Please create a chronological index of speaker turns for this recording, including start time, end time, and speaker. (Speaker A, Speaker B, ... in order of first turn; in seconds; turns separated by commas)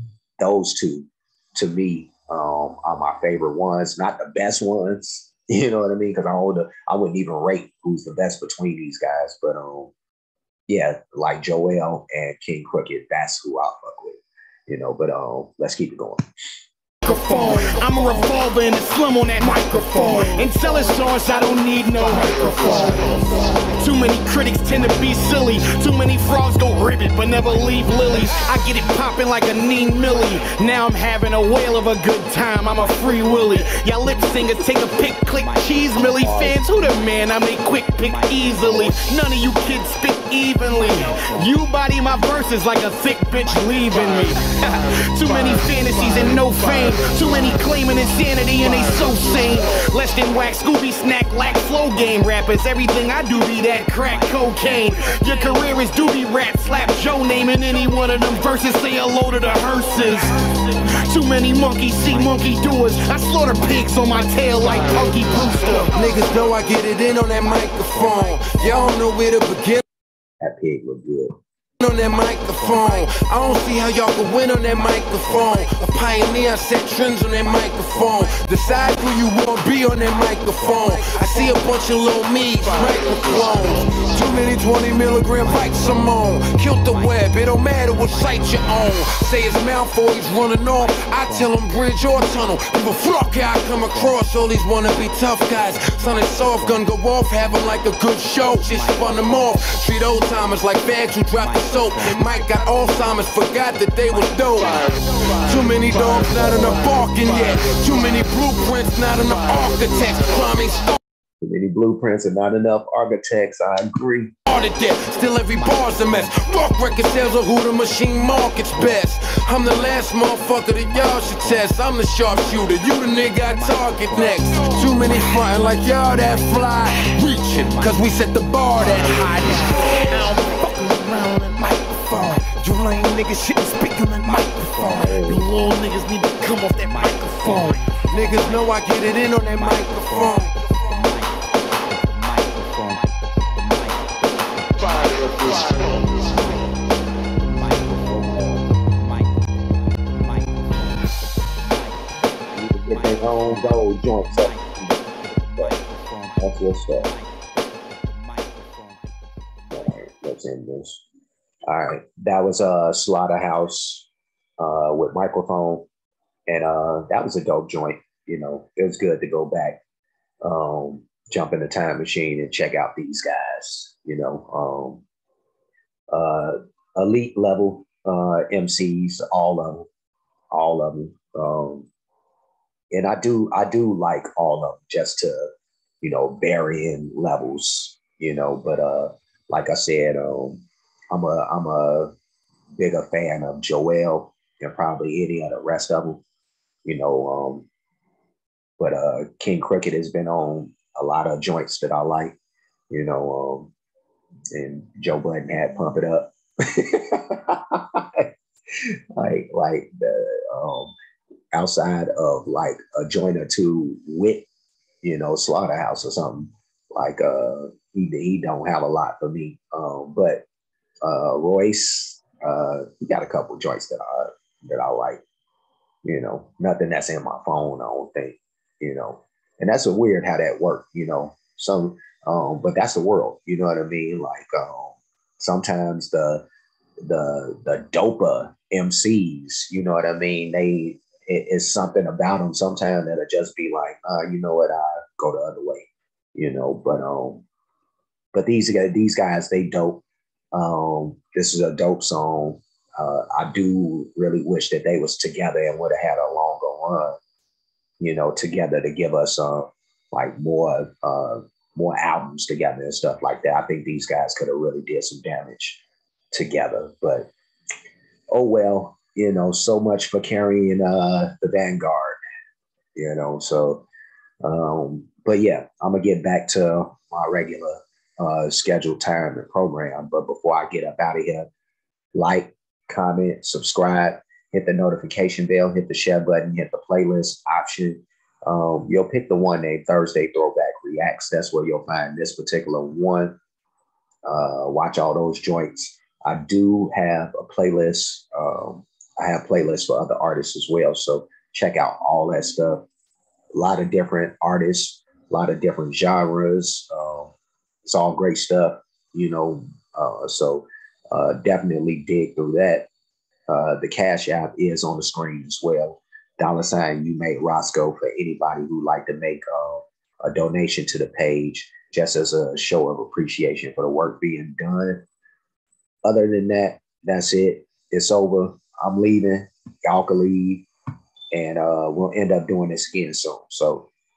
Speaker A: 0.4-9.9, Speaker A: 10.7-16.2, Speaker B: 17.0-66.0, Speaker C: 66.0-69.8, Speaker A: 70.4-71.4, Speaker C: 71.8-111.0, Speaker A: 111.4-114.3, Speaker C: 114.5-130.6, Speaker B: 130.2-132.4, Speaker C: 132.4-135.0, Speaker B: 133.6-134.5, Speaker A: 134.9-135.4, Speaker B: 135.4-137.8, Speaker C: 138.1-141.1, Speaker A: 147.9-148.6, Speaker A: 152.5-155.0, Speaker A: 156.4-157.1, Speaker A: 159.7-161.0, Speaker A: 161.7-164.1, Speaker A: 164.6-165.8, Speaker A: 166.5-169.8, Speaker A: 170.4-175.0, Speaker A: 176.1-179.9, Speaker A: 180.5-181.9, Speaker A: 182.9-185.4, Speaker A: 186.0-192.1, Speaker A: 192.8-196.2, Speaker A: 196.8-197.7, Speaker A: 198.8-202.4, Speaker A: 202.9-203.7, Speaker A: 204.5-208.2, Speaker A: 209.2-210.9, Speaker A: 211.5-214.5, Speaker A: 215.0-220.4, Speaker A: 221.0-225.2, Speaker A: 226.0-236.4, Speaker A: 237.0-247.4, Speaker A: 248.3-257.2, Speaker A: 258.0-265.8, Speaker A: 266.3-267.3, Speaker A: 268.3-272.2, Speaker A: 272.9-273.8, Speaker A: 274.4-281.5, Speaker A: 282.1-293.4, Speaker A: 294.2-302.8, Speaker A: 303.5-307.3, Speaker A: 307.8-312.9, Speaker A: 313.5-325.0, Speaker A: 326.0-330.7, Speaker A: 331.3-333.9